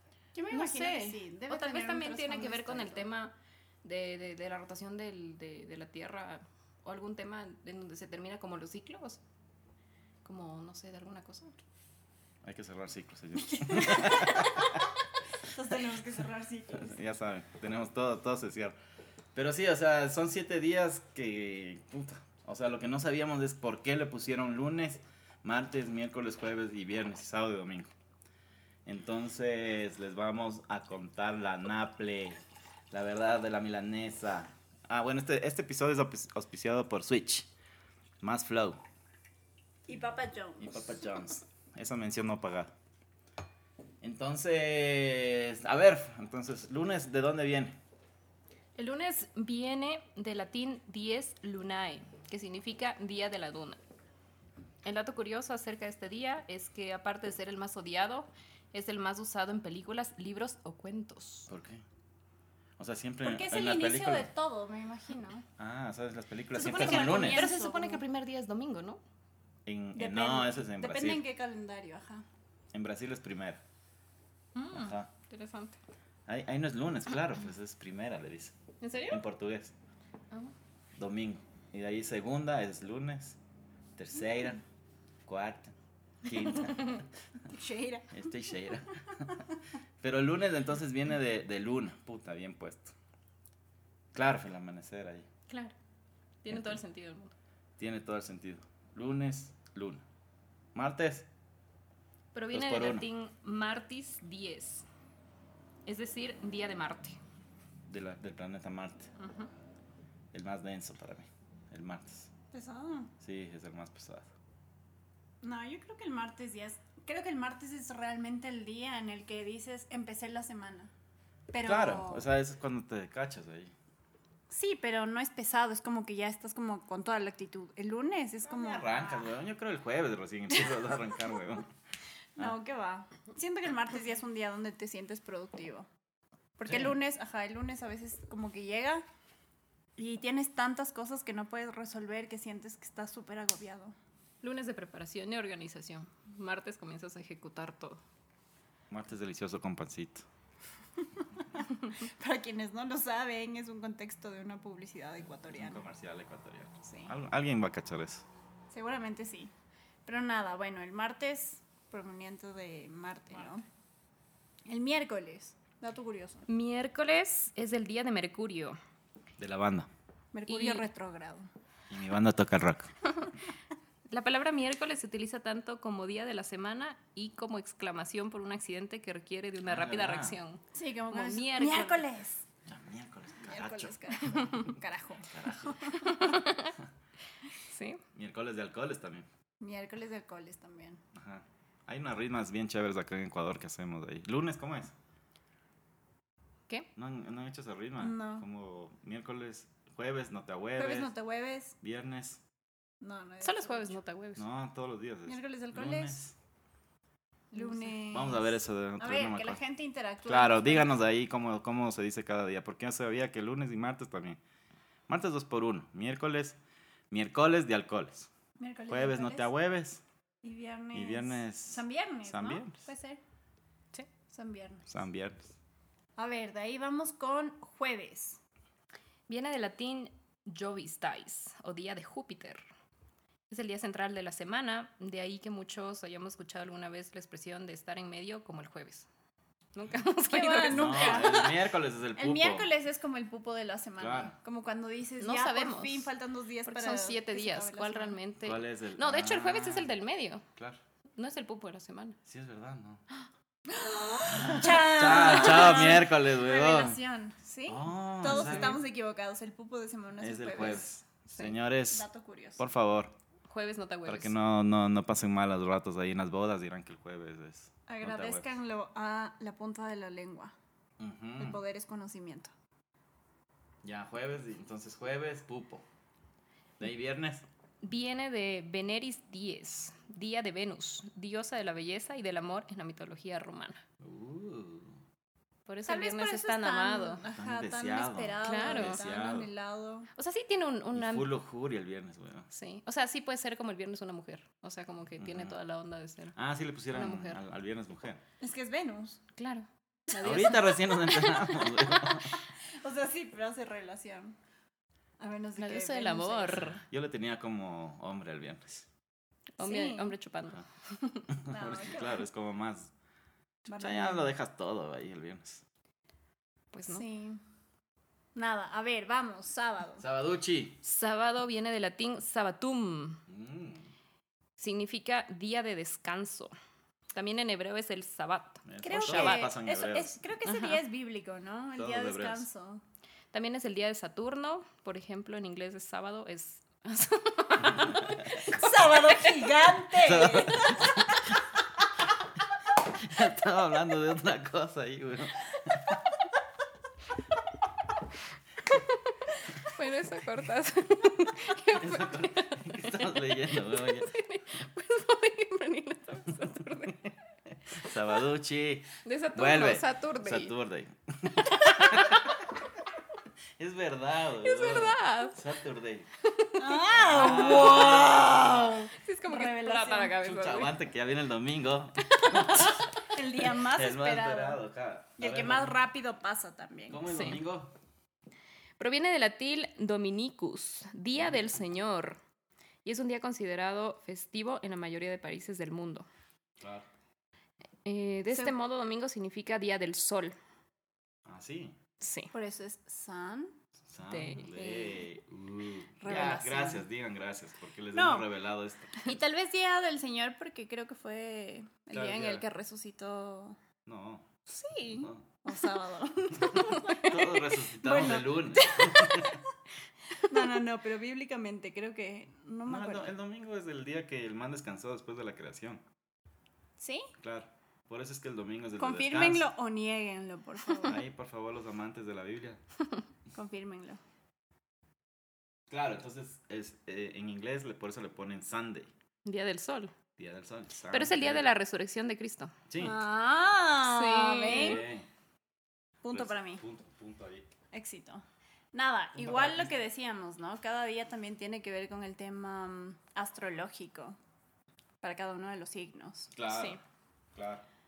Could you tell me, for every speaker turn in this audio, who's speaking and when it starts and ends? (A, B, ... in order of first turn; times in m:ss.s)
0:00.4-0:03.1 A
0:00.5-0:09.2 B
0:10.2-0:11.6 B
0:12.4-0:14.8 C
0:13.6-0:14.7 A
0:15.4-0:17.0 A
0:16.8-0:18.8 C
0:19.4-0:27.9 C
0:28.8-0:37.5 C
0:38.2-0:38.8 C
0:39.9-0:40.9 A
0:40.6-0:42.7 C
0:44.0-0:47.8 C
0:48.8-0:53.8 B
0:54.8-1:01.5 B
1:01.5-1:01.8 C
1:02.8-1:04.3 C
1:03.2-1:05.5 A
1:05.6-1:07.5 C
1:06.6-1:08.0 A
1:06.6-1:09.0 B
1:09.7-1:11.2 C
1:10.0-1:12.2 A
1:12.7-1:13.6 C
1:14.6-1:15.8 B
1:14.7-1:15.1 C
1:16.3-1:19.7 C
1:18.8-1:19.2 B
1:21.0-1:23.4 C
1:24.0-1:24.6 C
1:25.3-1:27.1 C
1:27.5-1:28.1 A
1:28.1-1:29.3 C
1:30.0-1:32.9 C
1:34.1-1:35.3 C
1:36.4-1:37.3 B
1:36.5-1:36.8 C
1:37.8-1:40.0 C
1:40.8-1:41.3 C
1:42.3-1:44.8 B
1:42.5-1:43.1 C
1:45.9-1:47.2 B
1:47.9-1:49.1 C
1:49.2-1:49.5 B
1:50.3-1:52.3 C
1:52.5-1:53.1 A
1:53.2-1:54.3 C
1:55.4-2:00.9 A
2:01.5-2:02.3 A
2:01.6-2:03.7 C
2:04.5-2:09.3 A
2:08.4-2:11.7 C
2:12.4-2:15.9 A
2:16.6-2:19.0 A
2:16.7-2:17.0 C
2:20.0-2:24.0 A
2:24.4-2:28.0 B
2:28.9-2:30.3 C
2:31.2-2:35.8 A
2:35.5-2:38.2 C
2:36.8-2:37.1 A
2:38.7-2:39.5 A
2:40.1-2:43.6 A
2:44.7-2:46.5 A
2:46.5-2:48.8 B
2:49.4-2:49.9 C
2:50.3-2:51.5 A
2:50.5-2:50.8 B
2:51.9-2:52.9 C
2:54.1-3:02.0 B
2:59.7-3:00.4 C
3:00.7-3:02.5 A
3:02.7-3:04.6 C
3:03.4-3:06.4 A
3:05.3-3:05.8 C
3:06.0-3:06.8 B
3:07.6-3:08.0 B
3:08.2-3:09.3 C
3:09.6-3:11.0 A
3:11.1-3:14.9 C
3:17.0-3:21.1 C
3:18.0-3:18.4 A
3:20.8-3:21.8 A
3:21.8-3:22.4 C
3:23.0-3:24.0 A
3:23.4-3:24.4 B
3:24.4-3:26.4 C
3:25.3-3:26.2 A
3:27.5-3:31.0 A
3:27.6-3:27.9 B
3:28.1-3:29.6 C
3:30.3-3:34.4 C
3:35.1-3:36.6 C
3:37.1-3:38.3 C
3:38.6-3:39.5 A
3:38.9-3:40.0 C
3:40.4-3:43.2 A
3:40.9-3:42.8 C
3:44.3-3:44.9 A
3:44.9-3:45.6 C
3:46.2-3:48.4 A
3:49.3-3:52.6 B
3:53.5-3:59.1 B
3:59.8-4:01.6 B
4:00.2-4:01.5 A
4:00.6-4:02.7 C
4:02.2-4:08.2 A
4:04.0-4:04.4 C
4:05.2-4:06.1 B
4:06.7-4:10.4 B
4:08.4-4:09.9 C
4:11.2-4:12.2 B
4:12.2-4:13.0 C
4:13.7-4:20.9 A
4:14.3-4:17.0 C
4:17.7-4:18.8 C
4:18.3-4:18.8 B
4:20.2-4:22.1 C
4:21.9-4:22.6 A
4:22.6-4:23.2 C
4:23.5-4:24.3 B
4:24.1-4:28.5 C
4:27.9-4:30.5 A
4:31.0-4:31.6 C
4:31.4-4:32.5 A
4:33.8-4:35.9 C
4:36.8-4:37.5 C
4:37.8-4:43.8 B
4:44.0-4:45.0 C
4:45.7-4:47.2 B
4:45.9-4:50.1 A
4:47.4-4:49.5 C
4:48.4-4:49.0 B
4:50.2-4:51.3 B
4:50.9-4:52.5 C
4:52.5-4:56.4 B
4:55.2-4:55.6 C
4:56.4-4:58.2 C
4:56.9-4:57.4 B
4:58.4-4:59.2 A
4:59.4-5:02.1 B
5:00.2-5:02.4 C
5:02.6-5:04.4 A
5:05.2-5:06.8 A
5:05.6-5:06.8 B
5:06.5-5:08.9 C
5:09.6-5:11.3 B
5:09.6-5:10.2 A
5:11.3-5:12.9 C
5:11.4-5:12.3 A
5:13.7-5:14.3 A
5:13.7-5:15.6 C
5:16.7-5:17.0 B
5:16.9-5:17.4 A
5:18.4-5:20.0 A
5:20.0-5:20.8 C
5:20.8-5:23.2 B
5:23.3-5:23.9 C
5:24.6-5:26.5 B
5:27.1-5:29.5 B
5:28.7-5:30.2 C
5:28.8-5:32.8 A
5:30.5-5:30.8 B
5:31.8-5:32.5 C
5:33.3-5:38.5 B
5:38.4-5:41.0 A
5:39.9-5:41.3 C
5:42.8-5:46.0 C
5:48.7-5:57.2 B
5:51.7-5:54.1 C
5:57.6-6:02.6 C
5:59.0-6:00.5 B
6:03.6-6:06.1 C
6:04.4-6:05.4 B
6:06.2-6:08.1 B
6:06.6-6:10.2 A
6:06.9-6:08.8 C
6:08.9-6:10.8 B
6:10.2-6:12.9 C
6:13.0-6:14.6 A
6:13.4-6:15.8 C
6:15.2-6:17.0 A
6:16.9-6:17.7 C
6:17.1-6:17.4 B
6:18.8-6:22.2 B
6:21.2-6:21.7 C
6:22.8-6:26.1 B
6:26.6-6:26.9 C
6:27.8-6:30.4 B
6:31.3-6:31.8 C
6:32.0-6:32.3 B
6:32.3-6:33.6 A
6:33.9-6:39.2 C
6:34.1-6:34.6 B
6:34.6-6:35.0 A
6:36.0-6:36.9 A
6:37.9-6:38.3 A
6:39.0-6:43.6 A
6:41.9-6:42.4 C
6:43.9-6:44.3 C
6:44.5-6:49.4 A
6:45.0-6:45.2 C
6:47.0-6:49.4 C
6:50.2-6:53.1 A
6:52.7-6:55.8 C
6:56.8-6:57.1 A
6:57.2-6:59.5 C
6:58.8-7:01.0 A
7:00.8-7:02.6 C
7:03.3-7:04.0 A
7:05.7-7:08.9 C
7:09.2-7:09.9 B
7:10.2-7:11.5 C
7:10.9-7:12.6 B
7:12.7-7:13.0 C
7:12.8-7:14.9 A
7:13.8-7:14.8 B
7:14.4-7:15.1 C
7:16.0-7:16.6 A
7:16.1-7:17.5 C
7:17.7-7:24.2 A
7:19.2-7:19.7 C
7:25.0-7:26.6 A
7:26.3-7:26.8 C
7:27.4-7:27.6 C